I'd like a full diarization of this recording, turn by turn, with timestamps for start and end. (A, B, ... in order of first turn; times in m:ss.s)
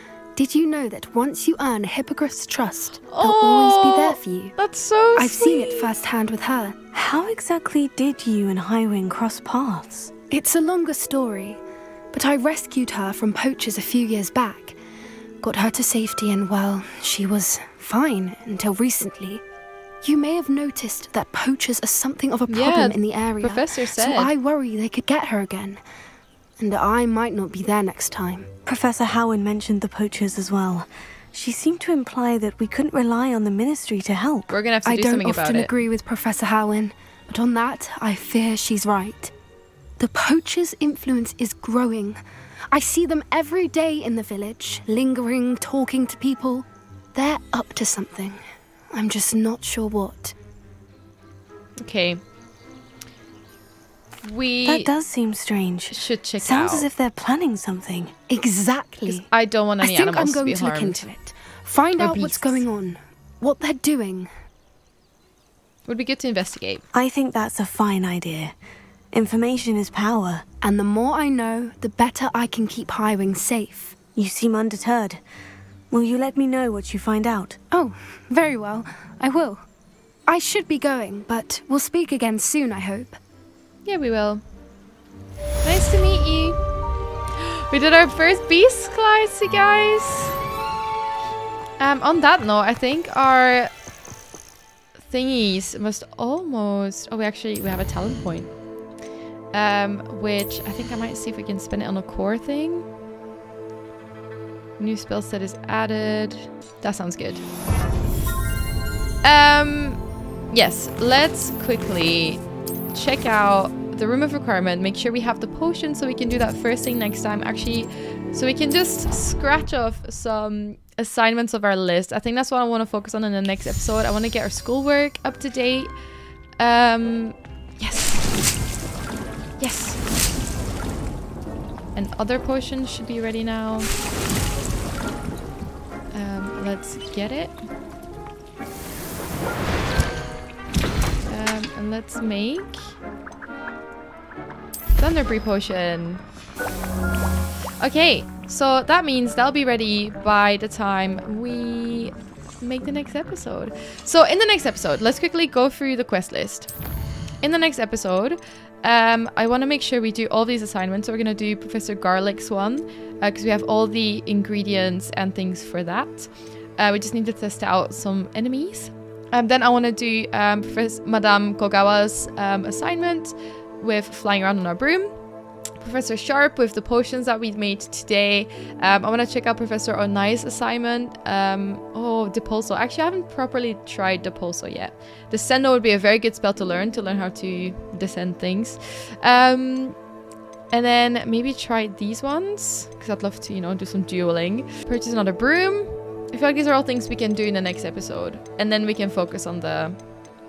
0:00.4-0:04.6 A
0:03.1-0:05.9 B
0:05.2-0:06.8 A
0:06.9-0:10.1 C
0:10.3-0:11.6 A
0:12.1-0:14.8 A
0:15.4-0:19.4 A
0:20.0-0:25.8 A
0:22.5-0:24.3 B
0:26.6-0:28.5 A
0:28.7-0:34.5 C
0:34.5-0:35.7 B
0:34.8-0:39.3 A
0:40.0-0:42.2 A
0:42.7-0:48.4 A
0:48.9-0:50.3 A
0:51.8-0:52.2 B
0:54.2-0:54.9 B
0:54.6-0:58.1 C
0:55.9-0:56.9 B
0:58.3-0:59.3 A
0:59.1-1:01.0 B
0:59.8-1:04.3 A
1:02.0-1:02.6 B
1:05.9-1:06.8 B
1:06.9-1:08.5 C
1:09.1-1:10.4 C
1:10.6-1:14.0 A
1:14.2-1:15.2 C
1:15.9-1:17.6 C
1:17.7-1:19.6 A
1:20.3-1:23.2 A
1:23.8-1:24.4 B
1:25.6-1:26.6 B
1:27.5-1:30.3 B
1:31.8-1:33.7 B
1:35.0-1:38.5 B
1:39.5-1:42.8 B
1:44.8-1:47.4 B
1:49.2-1:50.0 B
1:50.5-2:05.9 B
2:06.6-2:08.2 B
2:09.6-2:10.0 B
2:12.0-2:13.9 B
2:16.1-2:17.6 B
2:21.3-2:23.0 B
2:25.0-2:26.2 B
2:27.8-2:36.7 B
2:37.4-2:55.2 B
2:55.8-3:10.0 B
3:10.7-3:20.0 B